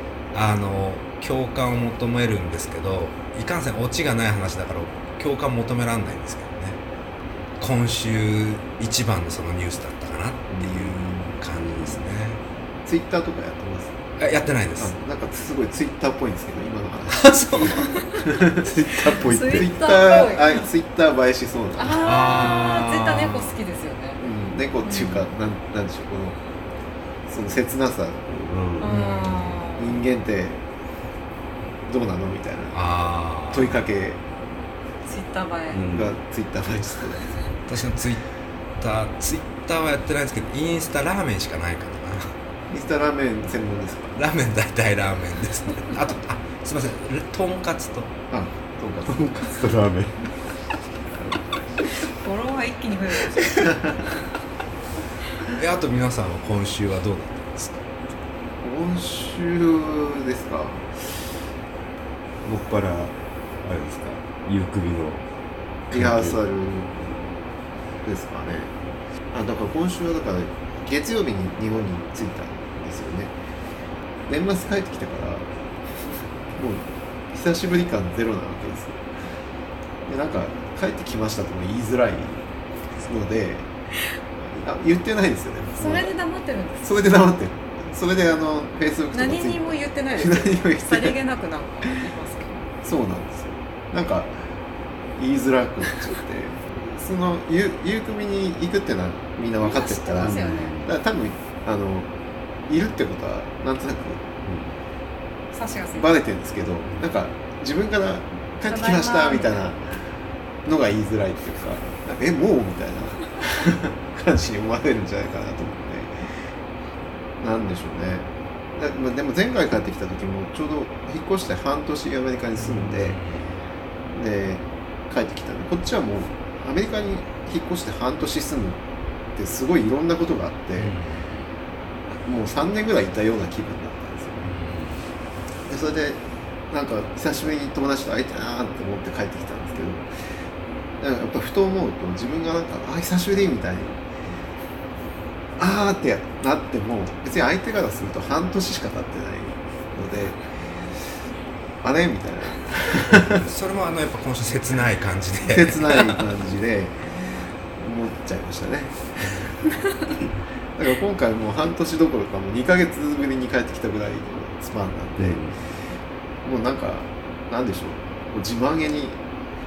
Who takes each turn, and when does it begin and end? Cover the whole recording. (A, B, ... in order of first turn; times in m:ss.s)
0:00.3-0:06.8 A
0:07.6-0:12.4 A
0:10.6-0:11.0 B
0:12.9-0:14.0 B
0:14.2-0:14.9 A
0:14.8-0:18.7 B
0:17.1-0:18.0 A
0:18.5-0:19.8 C
0:19.2-0:20.7 D
0:19.5-0:22.5 B
0:21.8-0:24.3 D
0:22.0-0:23.5 A
0:24.2-0:26.4 B
0:24.8-0:25.3 D
0:27.3-0:28.6 B
0:28.5-0:29.0 C
0:28.8-0:30.0 D
0:28.8-0:29.7 A
0:29.8-0:30.6 B
0:31.9-0:32.8 B
0:32.7-0:33.8 A
0:33.5-0:34.2 B
0:35.0-0:35.8 D
0:35.7-0:36.2 C
0:35.9-0:37.3 B
0:37.7-0:38.2 A
0:38.8-0:42.3 A
0:42.7-0:44.2 B
0:44.2-0:48.1 A
0:48.3-0:49.3 B
0:49.1-0:50.2 C
0:52.1-0:53.8 D
0:55.5-0:57.9 A
0:58.6-1:00.9 B
1:02.4-1:05.2 C
1:05.9-1:06.4 C
1:05.9-1:07.0 B
1:08.0-1:08.7 B
1:09.3-1:13.3 B
1:14.3-1:15.5 B
1:16.6-1:19.0 B
1:20.1-1:22.4 B
1:23.0-1:23.7 B
1:24.4-1:26.1 B
1:25.8-1:27.1 D
1:26.8-1:31.2 B
1:29.1-1:32.7 D
1:32.8-1:34.5 B
1:35.2-1:42.1 B
1:39.6-1:40.8 D
1:40.2-1:40.9 C
1:42.7-1:44.3 B
1:44.5-1:44.8 C
1:45.5-1:46.3 D
1:46.0-1:50.0 B
1:48.6-1:49.7 D
1:50.6-1:56.3 B
1:57.4-2:03.2 B
2:02.6-2:03.6 A
2:04.1-2:08.8 B
2:09.4-2:11.0 B
2:10.8-2:11.5 A
2:12.1-2:14.4 B
2:14.4-2:15.0 A
2:15.7-2:20.1 B
2:21.0-2:24.0 B
2:25.6-2:30.5 B
2:31.8-2:33.5 B
2:33.2-2:36.2 A
2:35.5-2:37.0 B
2:37.8-2:39.5 B
2:40.8-2:45.4 B
2:45.2-2:45.6 C
2:46.4-2:49.2 B